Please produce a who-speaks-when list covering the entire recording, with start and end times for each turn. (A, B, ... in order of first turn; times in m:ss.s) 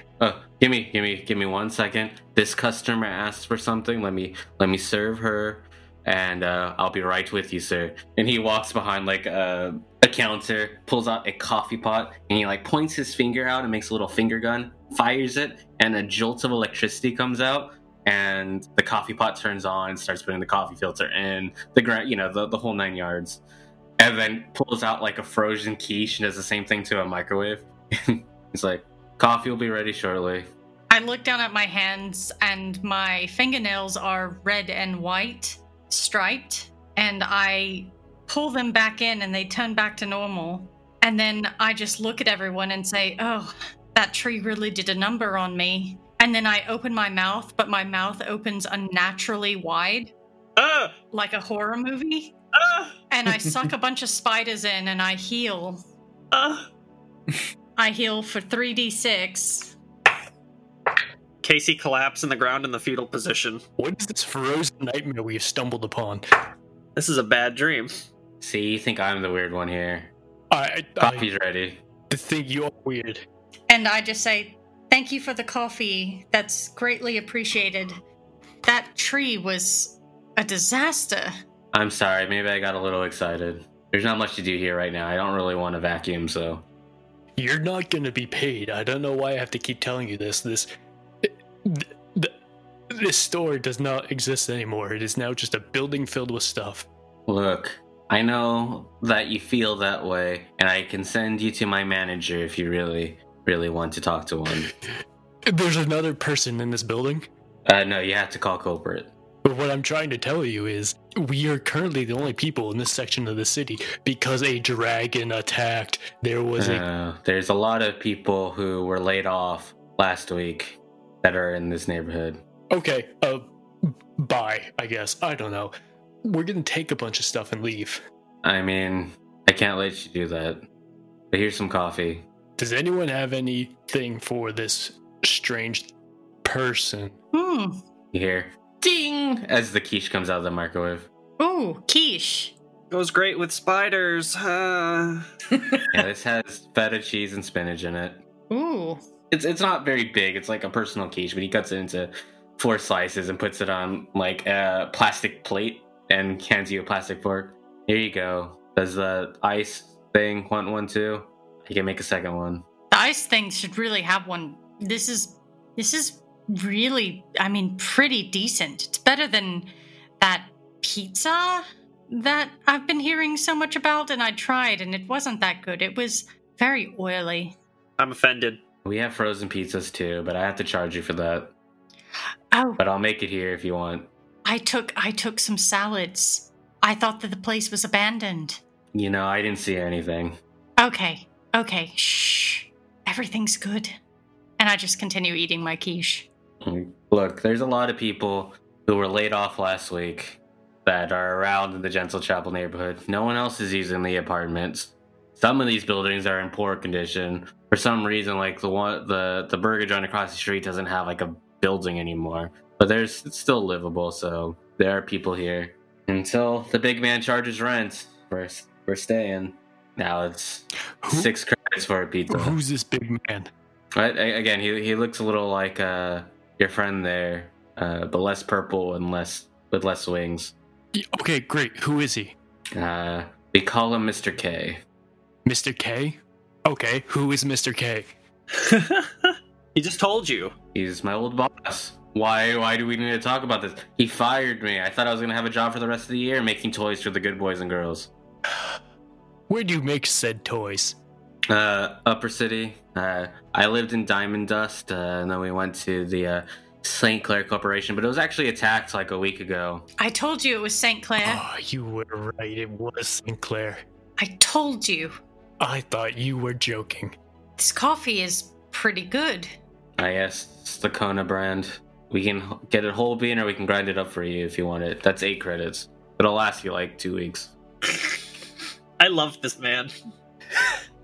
0:00.2-0:23.4 A
0:24.0-0:30.5 A
0:30.9-0:50.1 B
0:50.6-0:51.0 C
0:51.1-0:52.3 B
0:52.6-0:52.9 C
0:53.1-0:55.8 B
0:56.3-0:56.7 C
0:57.8-0:59.8 B
1:01.4-1:03.6 C
1:03.8-1:06.2 D
1:07.0-1:08.0 C
1:08.4-1:10.1 A
1:10.5-1:11.3 D
1:11.0-1:11.8 A
1:12.1-1:13.2 D
1:13.7-1:18.0 B
1:18.6-1:21.3 B
1:21.7-1:26.6 A
1:27.4-1:30.7 D
1:31.2-1:32.3 D
1:32.9-1:36.9 D
1:37.3-1:44.7 A
1:45.5-1:47.3 D
1:47.7-1:49.1 A
1:49.4-1:56.8 D
1:56.6-2:02.4 A
2:02.7-2:05.7 D
2:06.2-2:08.0 D
2:08.4-2:10.6 A
2:11.3-2:12.2 A
2:12.6-2:15.9 D
2:16.4-2:17.2 D
2:17.3-2:17.8 B
2:18.1-2:21.1 A
2:21.4-2:22.5 B
2:22.9-2:25.3 C
2:25.9-2:28.2 A
2:28.5-2:29.0 B
2:29.3-2:42.6 A
2:42.9-2:57.6 B
2:58.0-2:58.6 C
2:58.8-3:01.5 A
3:02.5-3:02.8 B
3:02.8-3:04.1 A
3:04.4-3:08.6 B
3:08.9-3:10.4 A
3:10.8-3:13.9 B
3:14.6-3:16.3 B
3:16.6-3:42.6 A
3:41.0-3:41.3 D
3:42.3-3:43.5 D
3:44.0-3:50.5 A
3:51.0-3:52.4 D
3:52.7-3:54.8 A
3:55.4-3:58.1 D
3:58.5-4:00.6 C
4:00.7-4:08.1 A
4:09.5-4:11.0 D
4:11.5-4:19.8 A
4:20.0-4:21.4 B
4:21.2-4:23.8 D
4:24.2-4:25.2 B
4:25.6-4:27.2 D
4:27.6-4:29.5 B
4:30.0-4:37.5 A
4:39.0-4:39.9 C